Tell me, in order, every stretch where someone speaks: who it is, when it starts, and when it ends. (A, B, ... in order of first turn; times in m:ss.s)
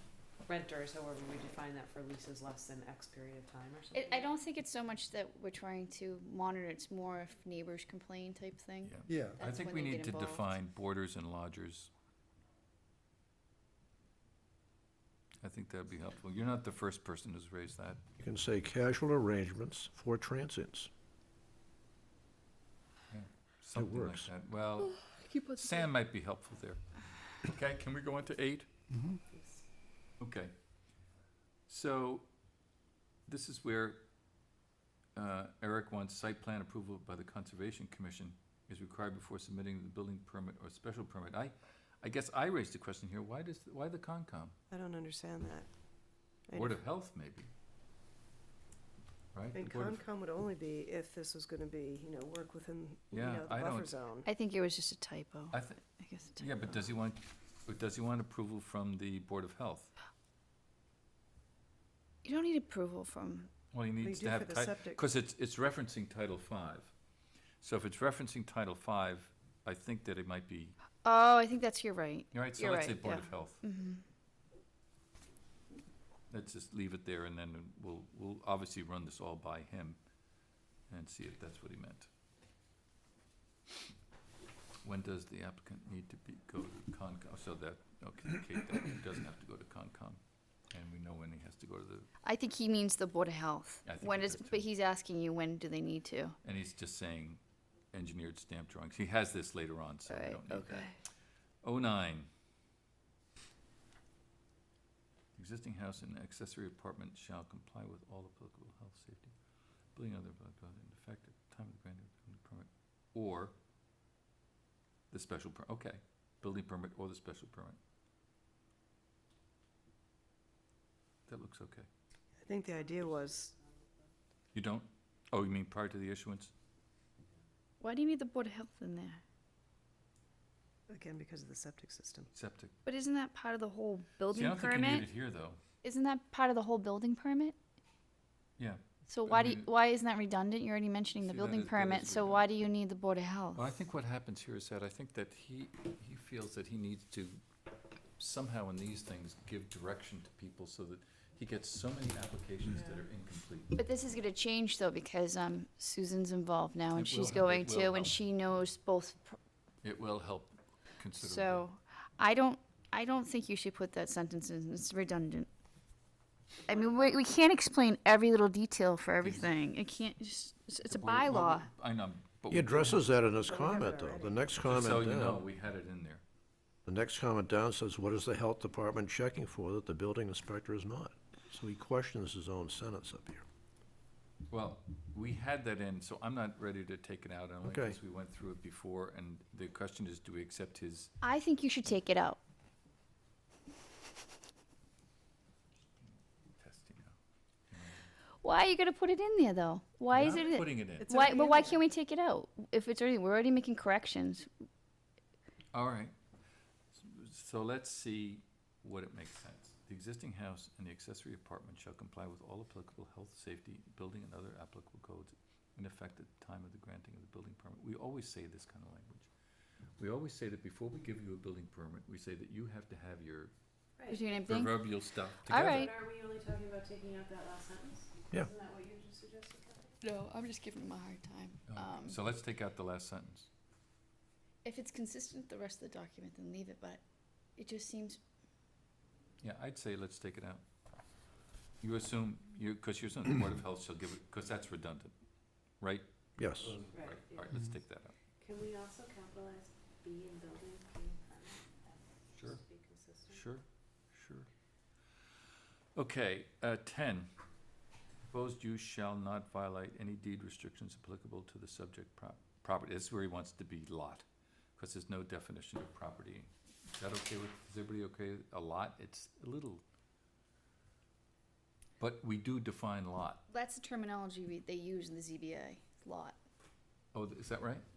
0:00.4-0:04.3 A
0:03.9-0:10.5 B
0:08.8-0:11.9 C
0:15.4-0:18.0 C
0:18.2-0:20.9 D
0:23.1-0:28.7 C
0:23.8-0:24.3 D
0:24.8-0:25.9 B
0:29.2-0:29.6 A
0:30.2-0:30.5 C
0:31.7-0:32.2 C
0:33.3-0:34.0 C
0:35.1-0:44.6 C
0:44.7-0:46.7 E
0:46.5-0:47.5 C
0:49.3-0:50.0 C
0:49.5-0:54.3 E
0:53.1-0:53.9 C
0:54.2-0:56.8 B
0:55.5-0:55.8 C
0:56.4-0:59.9 C
1:02.2-1:03.5 B
1:03.7-1:06.9 C
1:04.0-1:05.0 E
1:07.6-1:10.8 C
1:11.0-1:14.0 B
1:12.3-1:13.6 C
1:16.3-1:20.0 C
1:20.9-1:22.1 C
1:24.8-1:32.1 C
1:32.2-1:36.4 B
1:33.8-1:34.7 C
1:36.4-1:37.4 C
1:37.9-1:40.9 C
1:40.1-1:41.0 B
1:41.6-1:42.3 C
1:45.4-1:49.3 C
1:50.0-1:53.5 C
1:55.1-1:57.8 C
2:01.3-2:01.9 C
2:02.4-2:03.5 E
2:02.5-2:03.7 A
2:04.5-2:06.5 C
2:07.8-2:09.2 B
2:10.9-2:12.3 E
2:12.3-2:12.8 C
2:12.8-2:15.1 B
2:14.3-2:15.6 C
2:15.8-2:17.6 B
2:18.6-2:19.7 C
2:19.1-2:23.7 B
2:21.2-2:22.5 C
2:23.6-2:27.4 C
2:28.2-2:33.8 C
2:33.8-2:39.4 B
2:36.9-2:38.2 C
2:39.8-2:41.7 C
2:41.2-2:45.5 B
2:46.7-2:51.7 B
2:49.2-2:49.5 C
2:50.8-2:53.2 C
2:52.5-2:55.4 D
2:53.3-2:54.4 E
2:54.6-2:56.2 C
2:56.8-3:03.4 D
3:04.5-3:11.1 C
3:07.6-3:08.0 D
3:11.2-3:12.4 B
3:16.0-3:17.2 C
3:17.7-3:18.1 C
3:18.4-3:24.5 B
3:20.1-3:21.2 C
3:21.0-3:21.7 E
3:21.1-3:21.7 A
3:25.7-3:26.1 C
3:26.9-3:39.3 C
3:40.0-3:43.5 C
3:44.1-3:44.8 B
3:44.4-3:45.9 C
3:45.5-3:45.9 B
3:45.5-3:50.0 A
3:50.0-3:52.2 B
3:51.7-3:53.5 C
3:54.6-3:57.0 B
3:57.6-3:58.2 B
3:59.4-4:00.6 C
4:01.8-4:05.1 C
4:05.8-4:08.2 C
4:06.4-4:06.8 D
4:06.9-4:07.6 A
4:08.4-4:13.4 A
4:12.3-4:12.6 C
4:13.3-4:14.5 C
4:16.0-4:17.3 C
4:18.3-4:24.2 C
4:24.8-4:29.8 C
4:32.0-4:33.4 C
4:33.5-4:36.4 B
4:37.1-4:37.8 C